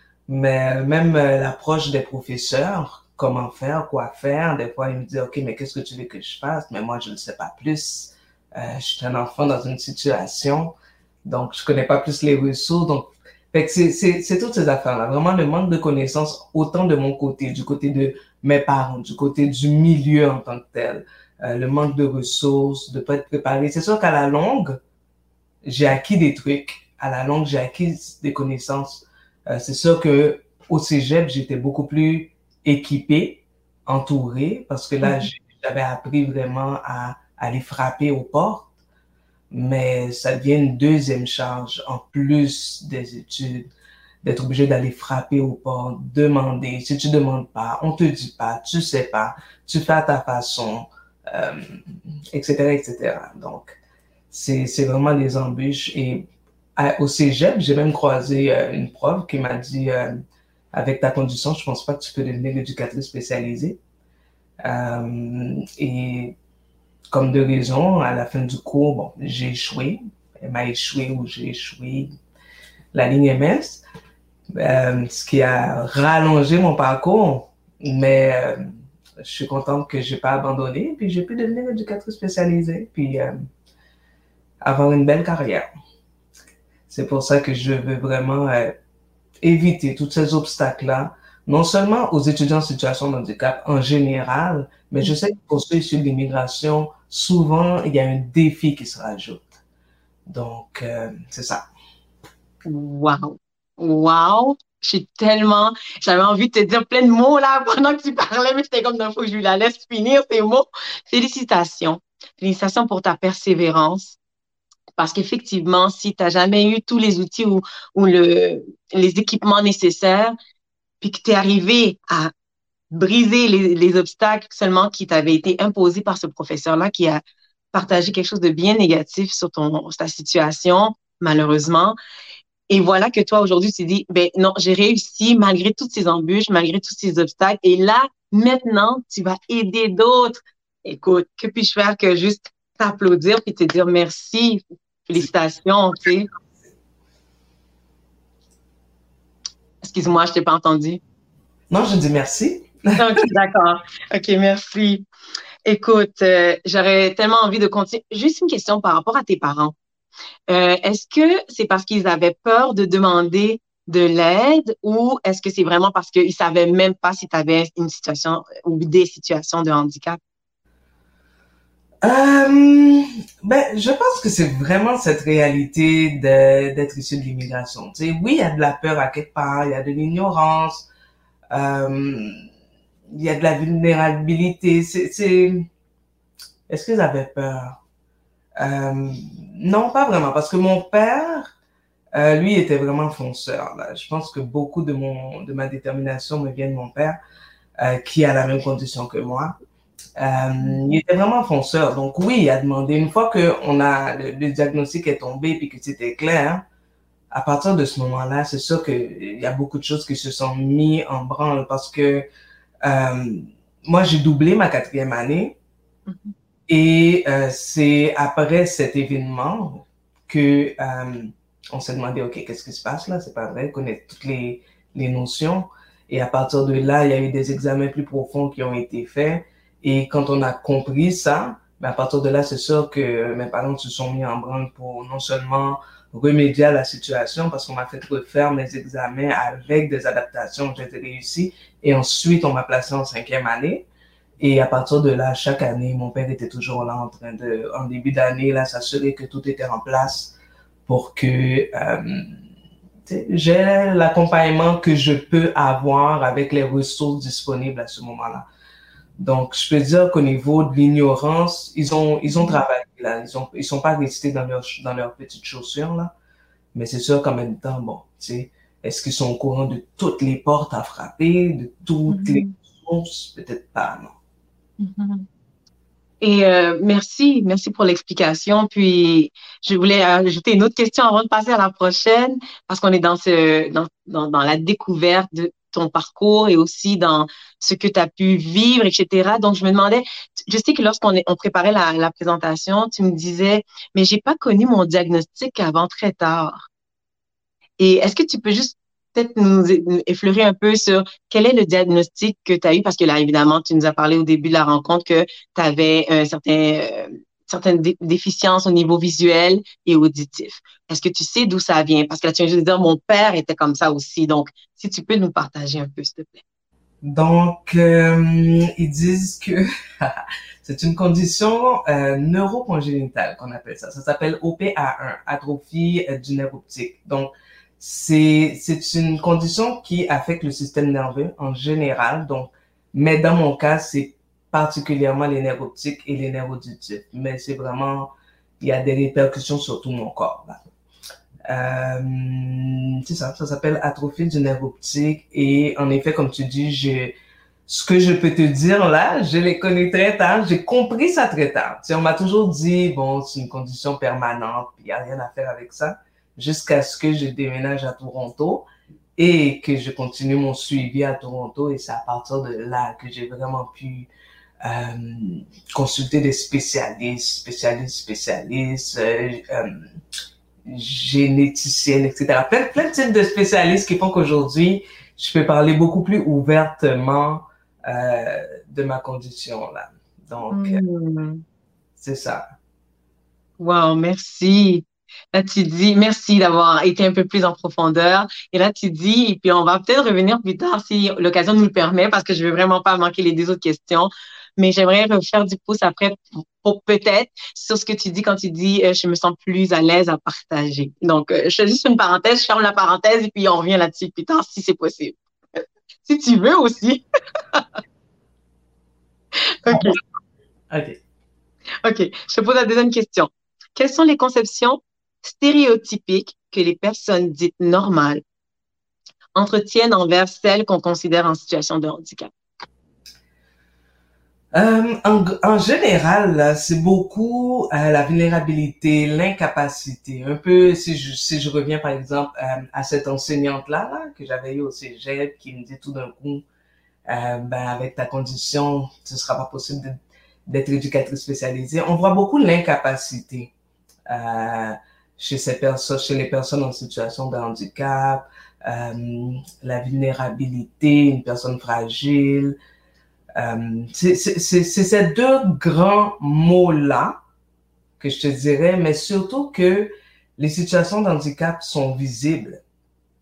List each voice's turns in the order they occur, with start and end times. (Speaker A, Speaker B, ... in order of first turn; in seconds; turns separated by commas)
Speaker A: 0.3-24.8, Speaker A: 25.6-38.7, Speaker A: 39.5-43.7, Speaker A: 44.2-53.8, Speaker A: 54.3-60.1, Speaker A: 60.7-63.8, Speaker A: 64.6-66.3, Speaker A: 67.1-72.1, Speaker A: 72.9-73.8, Speaker A: 74.5-83.4, Speaker A: 84.6-85.7, Speaker A: 86.9-88.8, Speaker A: 89.4-99.5, Speaker A: 100.2-101.7, Speaker B: 102.6-114.2, Speaker B: 115.0-120.3, Speaker B: 121.0-122.3, Speaker B: 122.9-127.2, Speaker B: 127.7-132.0, Speaker B: 132.7-146.3, Speaker B: 149.8-151.0, Speaker A: 151.7-153.1, Speaker B: 153.0-155.0, Speaker B: 155.6-159.7, Speaker B: 160.5-170.2, Speaker A: 172.0-180.9, Speaker A: 181.5-182.4, Speaker A: 183.1-185.7, Speaker A: 186.7-187.8, Speaker A: 188.6-191.5, Speaker A: 192.1-197.2, Speaker A: 197.8-199.6, Speaker A: 200.2-206.6, Speaker A: 207.3-212.2, Speaker A: 212.8-215.6, Speaker B: 216.1-216.3, Speaker A: 216.7-243.9, Speaker A: 244.4-250.3, Speaker A: 250.9-252.4, Speaker A: 253.1-258.4, Speaker A: 259.2-266.1, Speaker B: 262.3-262.6, Speaker A: 266.7-274.1, Speaker B: 272.1-272.5, Speaker B: 274.8-275.3, Speaker B: 276.2-296.7, Speaker B: 297.8-316.4, Speaker A: 317.0-340.6, Speaker A: 341.5-347.1, Speaker A: 347.7-364.1, Speaker A: 364.6-369.9, Speaker A: 370.6-380.8, Speaker B: 380.5-381.4, Speaker A: 382.0-382.5, Speaker B: 383.6-405.2, Speaker B: 406.0-407.6, Speaker B: 409.6-410.0, Speaker A: 410.7-411.0, Speaker B: 411.8-418.2, Speaker B: 419.3-422.3, Speaker A: 424.5-436.4, Speaker A: 437.1-443.5, Speaker A: 444.1-452.6, Speaker A: 453.4-457.2, Speaker A: 458.0-462.6